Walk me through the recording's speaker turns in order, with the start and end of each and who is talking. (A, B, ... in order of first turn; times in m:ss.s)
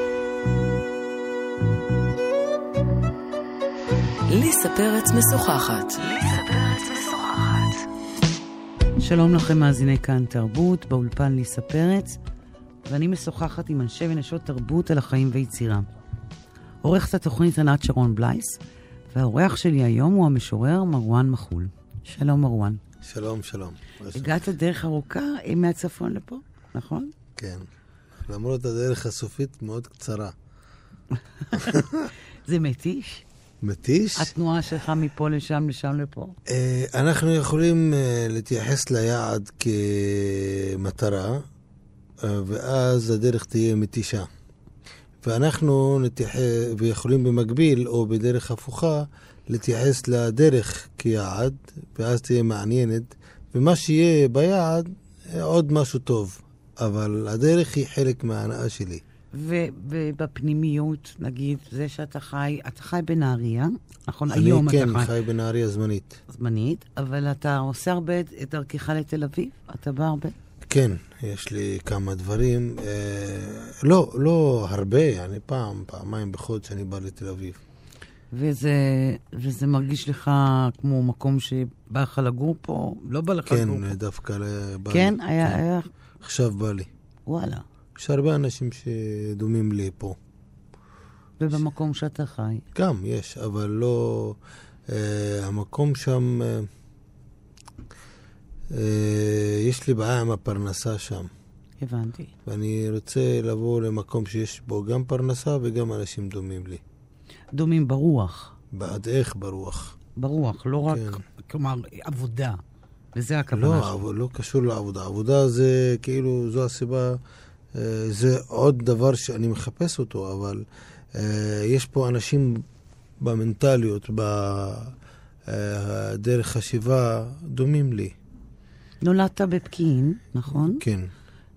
0:04.3-0:07.8 A
0:09.0-0:12.2 B
0:12.8-0:15.9 B
0:16.8-0:18.6 B
0:19.1-0:22.8 B
0:23.0-0:24.4 C
0:24.1-0:27.1 B
0:27.4-0:27.6 C
0:28.2-0:30.3 C
0:31.5-0:31.8 B
0:31.5-0:32.1 C
0:32.4-0:33.2 B
0:33.6-0:34.3 C
0:34.2-0:36.4 B
0:36.5-0:41.5 C
0:42.2-0:44.3 C
0:45.2-0:59.0 C
0:59.3-1:05.1 B
1:04.3-1:06.2 C
1:06.3-1:10.4 B
1:10.6-1:17.6 C
1:18.3-1:23.9 B
1:23.5-1:25.6 C
1:24.9-1:25.9 B
1:26.2-1:26.9 C
1:27.3-1:27.6 B
1:28.0-1:30.2 C
1:31.4-1:32.6 B
1:32.7-1:36.7 C
1:38.7-1:41.3 C
1:41.8-1:42.3 B
1:42.4-1:46.8 C
1:47.5-1:48.5 B
1:48.7-1:50.0 C
1:50.2-1:52.6 B
1:50.9-1:51.2 C
1:53.1-1:54.0 B
1:53.5-1:57.2 C
1:57.7-2:02.6 C
2:03.2-2:04.9 C
2:05.5-2:08.1 C
2:09.0-2:10.8 B
2:10.5-2:11.1 C